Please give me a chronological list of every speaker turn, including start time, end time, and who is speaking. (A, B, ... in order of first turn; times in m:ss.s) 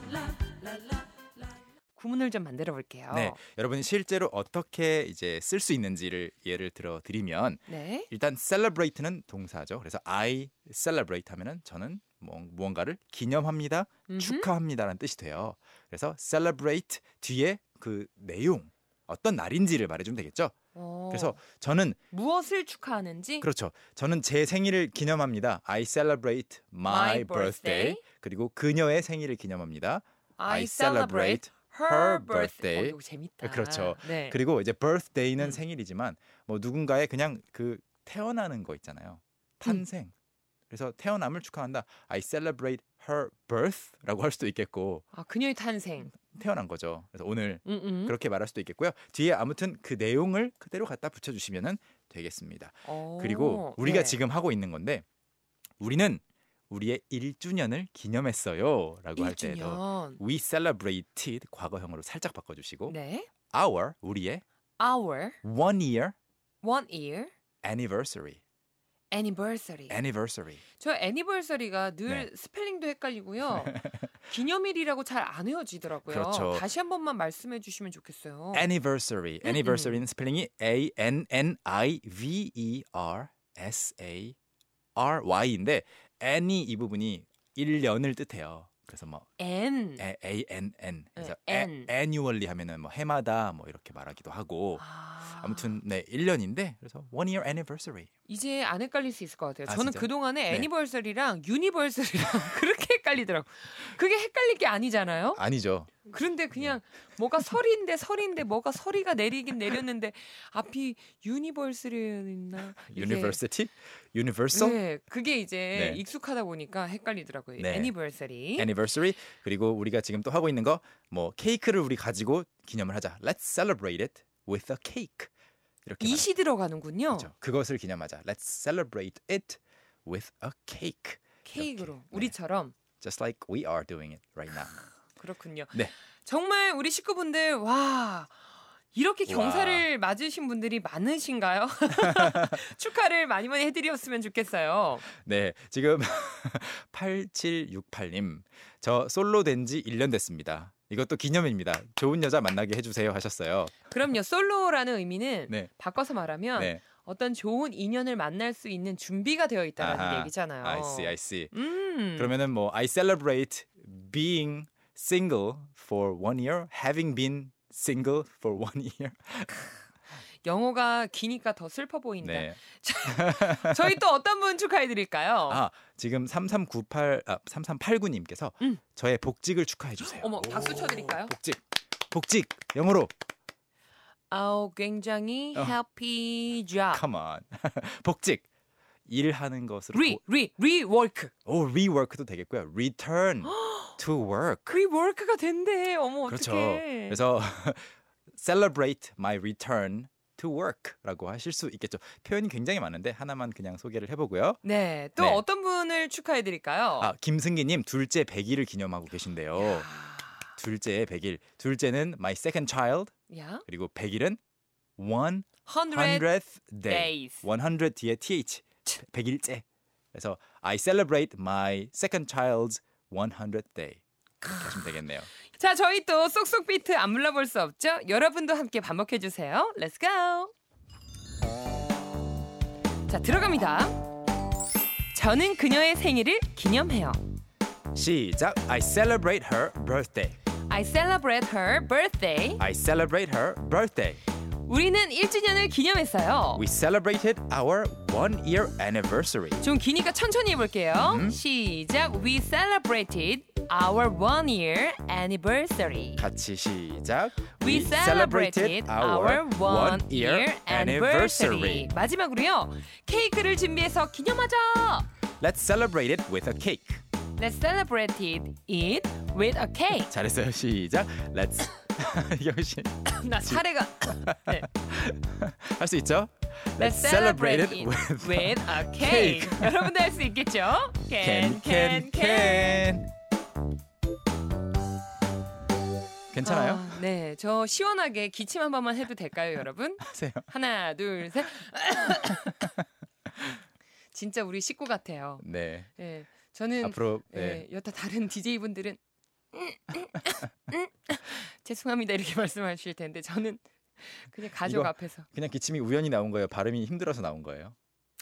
0:01.9-0:03.4 A
0:03.1-0:20.5 B
0:07.7-0:08.1 A
0:14.1-0:14.5 A
0:20.7-0:21.4 A
0:21.1-0:22.0 B
0:22.1-0:23.5 A
0:23.4-0:40.1 B
0:26.8-0:28.0 A
0:30.4-0:34.4 A
0:40.7-0:45.0 B
0:45.1-0:46.1 A
0:46.1-0:55.0 B
0:47.6-0:48.1 A
0:52.8-0:54.2 A
0:55.8-1:03.0 B
0:59.2-1:00.2 A
1:02.9-1:03.3 A
1:03.5-1:04.4 B
1:04.8-1:05.4 A
1:05.4-1:06.1 B
1:06.6-1:07.3 A
1:07.6-1:08.4 B
1:09.1-1:10.0 A
1:09.9-1:10.6 B
1:10.8-1:18.7 A
1:13.6-1:14.0 B
1:16.0-1:16.6 B
1:18.5-1:24.4 B
1:19.4-1:20.0 A
1:25.0-1:29.3 B
1:29.4-1:30.0 A
1:30.0-1:38.1 B
1:31.2-1:31.9 A
1:34.8-1:35.8 A
1:38.3-1:45.4 A
1:39.7-1:40.7 B
1:45.3-1:46.7 B
1:46.1-1:53.4 A
1:52.6-1:54.8 B
1:54.5-1:58.7 A
1:55.7-1:56.0 B
1:57.6-1:57.9 B
1:58.6-2:05.3 B
2:05.8-2:06.3 B
2:06.0-2:07.3 A
2:07.1-2:12.3 B
2:11.4-2:12.7 A
2:13.0-2:14.8 B
2:15.2-2:18.4 A
2:18.9-2:25.0 A
2:19.3-2:19.9 B
2:22.0-2:22.6 B
2:25.1-2:33.8 B
2:33.9-2:42.3 A
2:36.6-2:36.8 B
2:39.8-2:41.5 B
2:42.2-2:49.5 B
2:50.4-2:55.6 A
2:52.2-2:54.0 B
2:55.5-3:03.1 B
3:00.0-3:01.3 A
3:04.3-3:07.0 A
3:06.9-3:08.5 B
3:09.1-3:10.2 B
3:09.9-3:11.3 A
3:11.4-3:14.7 B
3:13.5-3:13.9 A
3:14.7-3:17.2 A
3:16.3-3:24.6 B
3:24.6-3:27.1 A
3:25.2-3:25.4 B
3:27.0-3:29.9 B
3:29.6-3:30.4 A
3:30.5-3:33.1 B
3:33.3-3:33.6 A
3:33.6-3:34.4 B
3:35.0-3:45.3 B
3:35.6-3:36.2 A
3:36.8-3:37.4 A
3:45.5-3:50.5 A
3:53.1-3:54.0 A
3:55.1-3:57.2 A
3:57.9-4:00.4 B
4:00.7-4:02.6 A
4:02.6-4:04.2 B
4:04.6-4:06.6 A
4:06.5-4:09.6 B
4:09.6-4:16.2 A
4:11.0-4:11.4 B
4:16.2-4:21.9 B
4:17.6-4:25.1 A
4:25.4-4:27.0 B
4:27.4-4:30.1 A
4:30.1-4:40.0 B
4:33.1-4:34.7 A
4:36.8-4:42.9 A
4:41.2-4:43.1 B
4:46.3-4:47.0 B
4:46.4-4:52.7 A
4:50.0-4:50.5 B
4:54.1-4:55.4 A
4:55.4-4:55.9 B
4:56.0-4:59.0 A
4:56.8-4:57.6 B
4:59.5-5:05.2 A
5:04.6-5:07.7 B